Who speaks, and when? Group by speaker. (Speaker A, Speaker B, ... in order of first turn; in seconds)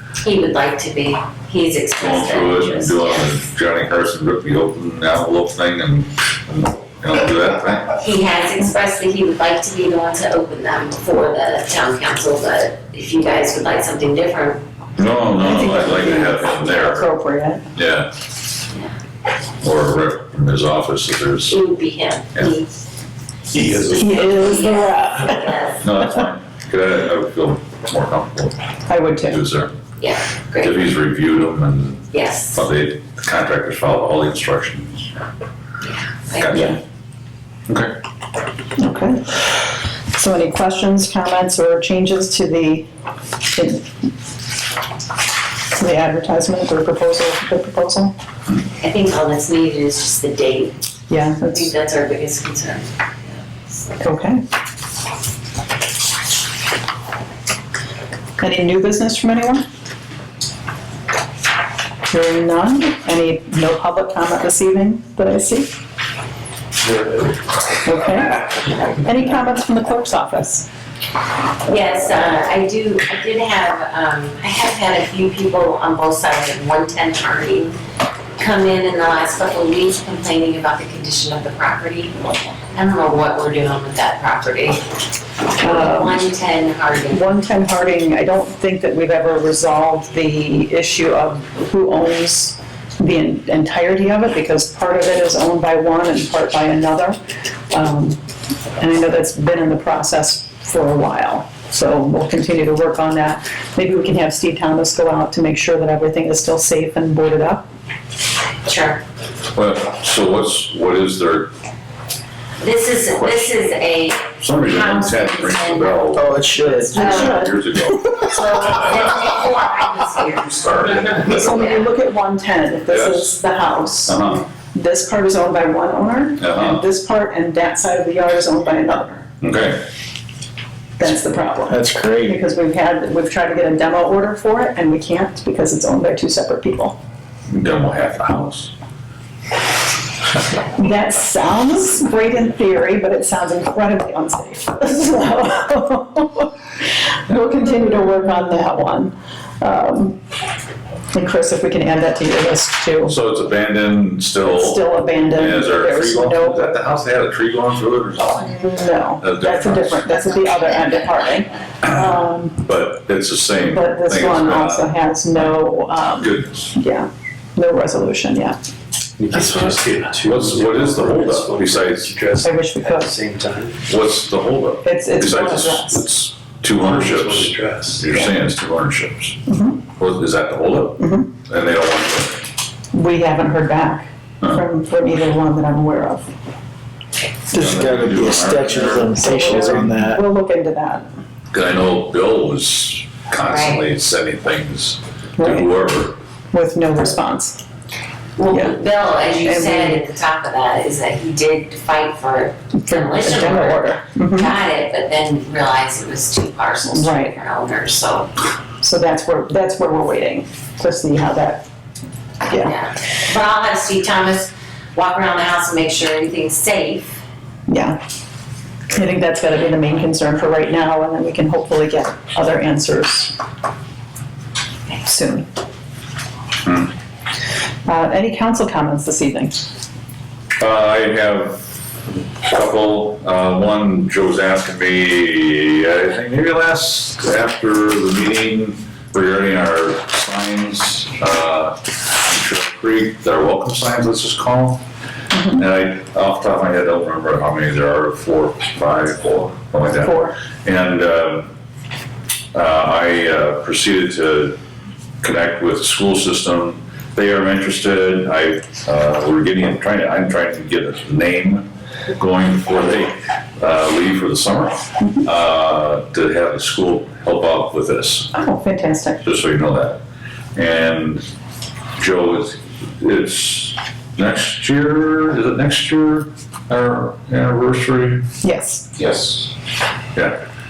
Speaker A: 0.2-3.2, 8.0-14.6, 21.5-22.7, 24.3-25.8, 30.0-30.9, 32.1-32.6, 35.8-36.7, 48.8-50.8, 51.5-54.0, 71.7-77.8, 78.4-82.2, 82.7-84.8, 85.6-87.3, 108.7-109.0, 112.6-116.2, 116.9-117.4, 118.2-121.8, 193.4-193.8, 198.4-208.3, 212.6-217.2
Speaker B: 2.0-8.0, 15.0-17.1, 17.8-18.1, 19.6-21.6, 25.8-28.6, 29.2-29.7, 30.6-35.1, 36.4-36.8, 37.7-38.0, 109.5-111.5, 113.1-113.6, 114.4-116.3, 116.9-119.2, 120.5-121.6, 122.9-123.3, 124.1-124.4, 126.4-126.8, 129.4-129.8, 137.5-138.7, 153.1-158.6, 159.2-160.2, 162.6-166.8, 170.2-172.1, 173.9-179.4, 180.0-182.5, 187.5-189.8, 191.5-196.2, 230.6-231.7, 232.4-244.8, 245.5-251.5, 252.5-254.6, 255.2-261.7, 262.2-268.3, 269.2-270.0, 270.6-271.3, 272.0-278.2, 278.9-279.5, 280.1-280.4
Speaker C: 15.3-17.7, 23.9-25.5, 28.9-29.4, 36.5-36.8, 38.8-42.9, 43.5-43.9, 45.7-48.1, 51.1-51.7, 54.0-54.4, 58.4-59.6, 62.1-65.7, 67.8-70.7, 85.6-86.2, 87.1-97.2, 97.7-98.2, 98.8-107.7, 116.9-118.8, 121.2-129.2, 131.0-137.0, 140.7-150.2, 151.1-153.2, 154.4-156.8, 158.4-162.6, 163.7-168.6, 172.4-173.1, 174.8-176.1, 179.5-179.8, 181.0-181.3, 182.9-186.3, 189.2-191.1, 195.4-195.7, 196.5-197.6, 198.5-198.8, 199.4-200.0, 202.9-204.5, 206.9-207.3, 208.8-211.7, 212.5-212.8, 217.7-218.0, 218.9-223.4, 225.0-225.5, 227.9-229.7, 245.3-245.6, 250.0-250.4, 268.3-269.2, 278.4-278.9
Speaker D: 23.5-24.6, 116.6-117.1, 131.8-132.3, 169.2-173.8, 176.7-178.1, 187.6-190.1
Speaker E: 116.2-117.0, 131.7-132.3, 187.6-190.2